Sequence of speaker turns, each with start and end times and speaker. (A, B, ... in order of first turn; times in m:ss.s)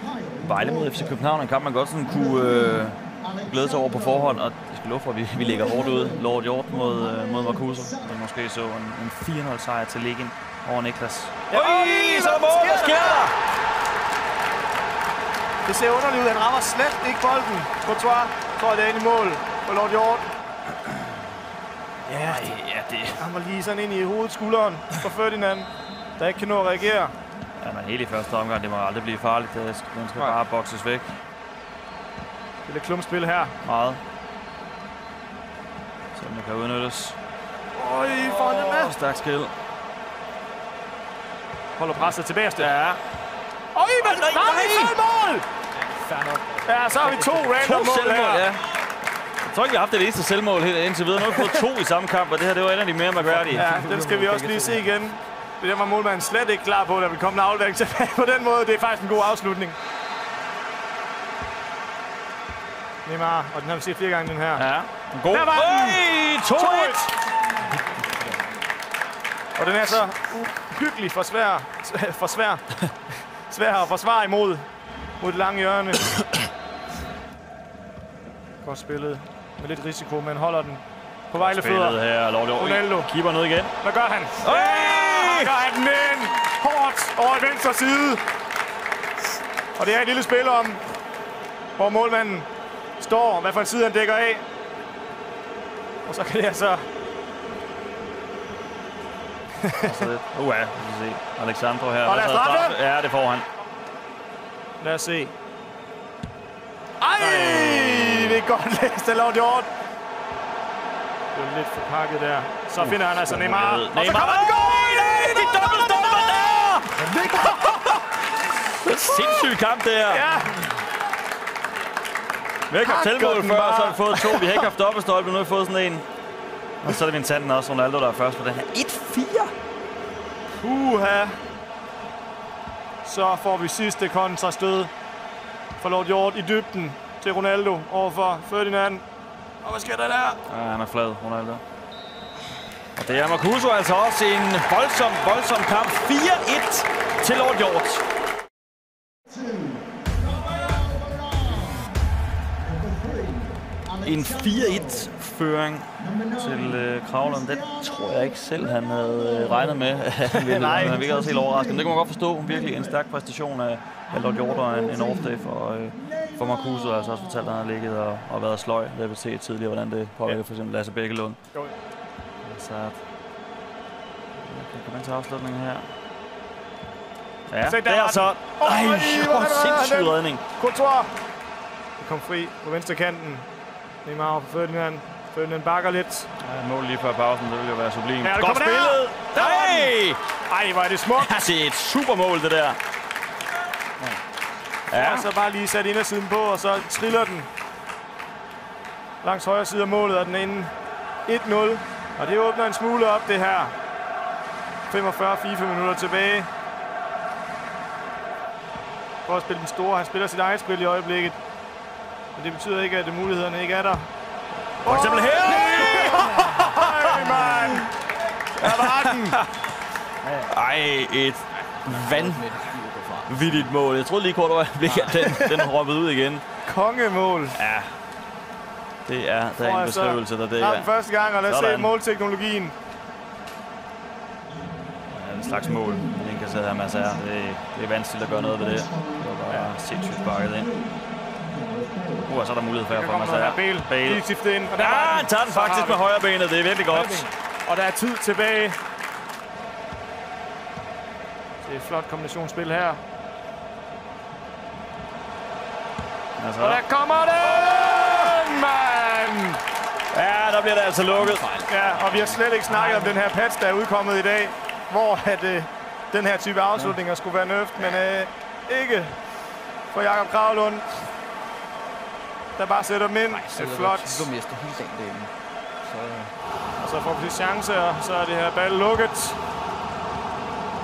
0:00.4-0:13.3 A
0:11.5-0:13.3 B
0:15.6-0:20.2 B
0:22.1-0:22.6 B
0:22.1-0:23.2 A
0:23.2-0:27.1 B
0:27.6-0:31.2 A
0:32.6-0:33.5 B
0:33.6-0:34.0 A
0:36.1-0:37.2 A
0:37.8-0:38.9 B
0:38.0-0:39.5 A
0:41.8-0:43.0 B
0:43.7-0:45.4 B
0:44.0-0:44.9 A
0:45.8-0:47.6 C
0:46.6-0:48.5 B
0:47.6-0:48.6 A
0:49.4-0:53.7 A
0:53.4-0:54.9 C
0:53.5-0:59.8 B
1:03.0-1:04.6 B
1:04.5-1:07.1 A
1:05.3-1:07.1 B
1:09.6-1:12.8 B
1:13.5-1:14.6 B
1:15.2-1:16.1 B
1:18.6-1:22.0 B
1:21.4-1:23.7 A
1:22.5-1:23.1 B
1:23.8-1:28.2 B
1:24.4-1:25.6 A
1:29.8-1:30.8 B
1:31.8-1:32.4 B
1:33.0-1:34.4 B
1:36.0-1:36.8 B
1:39.6-1:40.1 B
1:39.8-1:43.4 A
1:42.0-1:42.8 B
1:44.8-1:45.3 B
1:47.0-1:49.7 B
1:47.2-1:48.4 A
1:51.3-1:57.8 B
1:52.8-1:57.6 A
1:58.7-2:00.2 A
1:59.1-1:59.5 B
2:00.1-2:00.6 B
2:02.7-2:06.0 A
2:02.7-2:04.6 B
2:06.8-2:09.5 A
2:10.6-2:11.4 B
2:13.0-2:14.9 B
2:15.8-2:19.0 B
2:19.6-2:20.4 B
2:20.4-2:21.6 A
2:23.0-2:28.0 A
2:34.0-2:51.4 A
2:40.5-2:40.9 B
2:52.4-2:53.0 A
2:54.4-2:55.9 A
2:57.5-3:00.4 A
2:57.6-3:01.1 B
3:02.0-3:03.4 B
3:04.0-3:06.3 B
3:06.4-3:10.2 A
3:08.2-3:09.9 B
3:10.5-3:11.3 B
3:11.1-3:12.8 A
3:14.9-3:15.3 A
3:14.9-3:17.5 B
3:19.2-3:20.7 B
3:21.2-3:23.7 B
3:24.9-3:26.5 B
3:29.2-3:31.4 B
3:32.4-3:34.1 B
3:34.8-3:36.6 A
3:34.8-3:37.9 B
3:38.6-3:39.4 B
3:38.6-3:39.4 A
3:40.3-3:42.6 A
3:41.8-3:43.7 C
3:43.2-3:46.4 A
3:45.0-3:45.7 B
3:46.6-3:47.6 B
3:47.5-3:47.9 A
3:49.0-3:50.9 A
3:49.6-3:52.7 B
3:51.4-3:51.9 A
3:55.1-4:00.7 A
3:59.5-3:59.7 B
4:02.2-4:04.2 A
4:02.9-4:06.0 B
4:04.7-4:07.3 A
4:06.9-4:08.8 B
4:11.6-4:13.0 B
4:16.4-4:16.8 A
4:16.6-4:19.6 B
4:17.7-4:18.0 A
4:20.1-4:21.5 A
4:21.1-4:23.2 C
4:21.7-4:29.1 B
4:29.9-4:30.8 B
4:32.6-4:34.3 B
4:33.3-4:35.3 C
4:35.8-4:36.3 C
4:36.8-4:39.4 B